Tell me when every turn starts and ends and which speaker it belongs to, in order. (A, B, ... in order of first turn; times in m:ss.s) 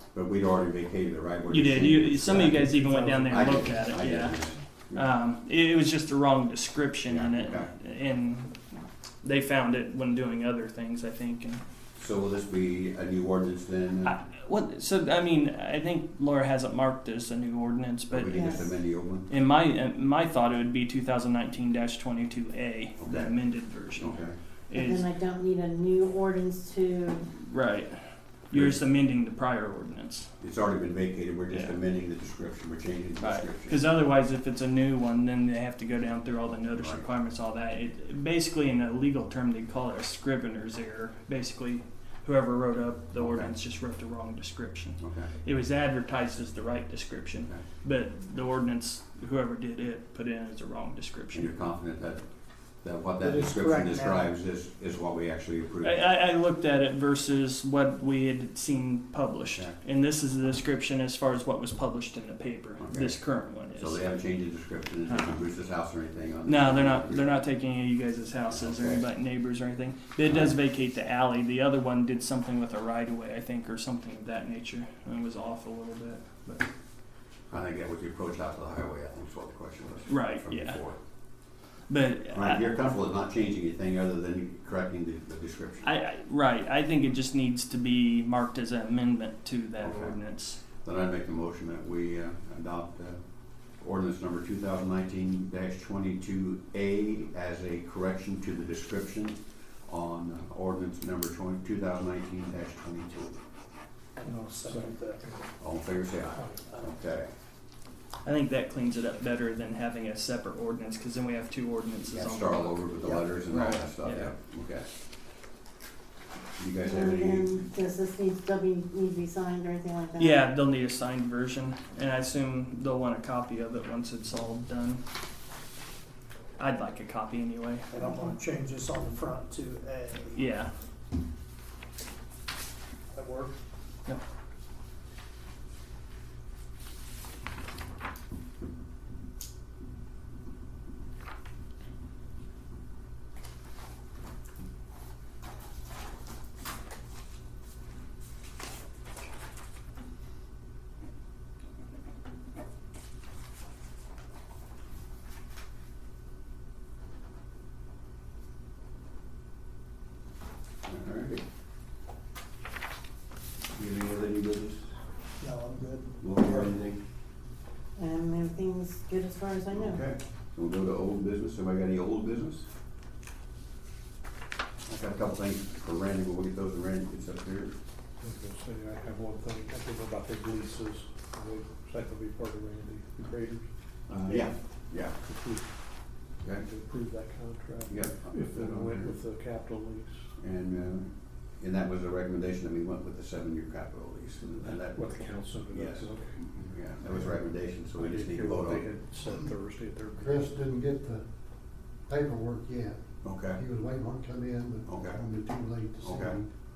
0:00.1-0:05.1 A
0:01.5-0:04.4 B
0:04.9-0:11.6 B
0:07.1-0:07.7 A
0:12.0-0:14.2 A
0:14.0-0:18.6 B
0:18.1-0:19.3 A
0:18.3-0:18.7 C
0:19.3-0:25.1 B
0:23.0-0:23.3 A
0:24.0-0:24.4 A
0:24.7-0:27.3 C
0:27.4-0:30.3 B
0:28.5-0:28.8 A
0:30.4-0:33.8 A
0:31.5-0:31.8 B
0:33.2-0:51.5 B
0:36.7-0:37.1 A
0:43.2-0:43.5 A
0:45.0-0:45.3 A
0:51.3-0:52.2 A
0:52.8-0:56.1 A
0:53.2-0:54.3 D
0:55.8-1:04.0 B
1:02.8-1:07.3 A
1:06.5-1:16.7 B
1:08.5-1:09.0 A
1:10.2-1:10.6 A
1:17.5-1:21.0 A
1:20.1-1:20.8 B
1:21.9-1:22.8 B
1:22.3-1:25.9 A
1:25.8-1:30.6 B
1:29.8-1:30.2 A
1:30.8-1:33.2 A
1:33.8-1:43.4 A
1:44.2-1:45.3 D
1:44.2-1:45.4 E
1:45.6-1:47.3 A
1:46.5-1:46.9 D
1:48.2-1:54.3 B
1:52.1-1:55.0 A
1:56.6-1:57.6 A
1:56.8-2:00.4 C
2:00.2-2:05.0 B
2:06.6-2:07.9 B
2:07.9-2:10.4 D
2:08.0-2:08.4 C
2:10.3-2:10.7 B
2:13.1-2:13.6 D
2:40.9-2:41.4 A
2:43.7-2:44.9 A
2:45.4-2:46.7 D
2:46.2-2:47.0 A
2:48.0-2:50.0 C
2:49.7-2:52.7 A
2:54.9-2:57.7 A
2:58.2-3:04.5 E
3:04.1-3:05.2 A
3:05.0-3:05.6 E
3:06.4-3:10.3 E
3:07.9-3:09.2 A
3:10.4-3:18.9 A
3:14.4-3:16.4 E
3:17.9-3:20.7 E
3:20.2-3:21.2 F
3:22.1-3:26.5 F
3:23.2-3:23.6 A
3:24.9-3:25.2 A
3:26.0-3:26.4 A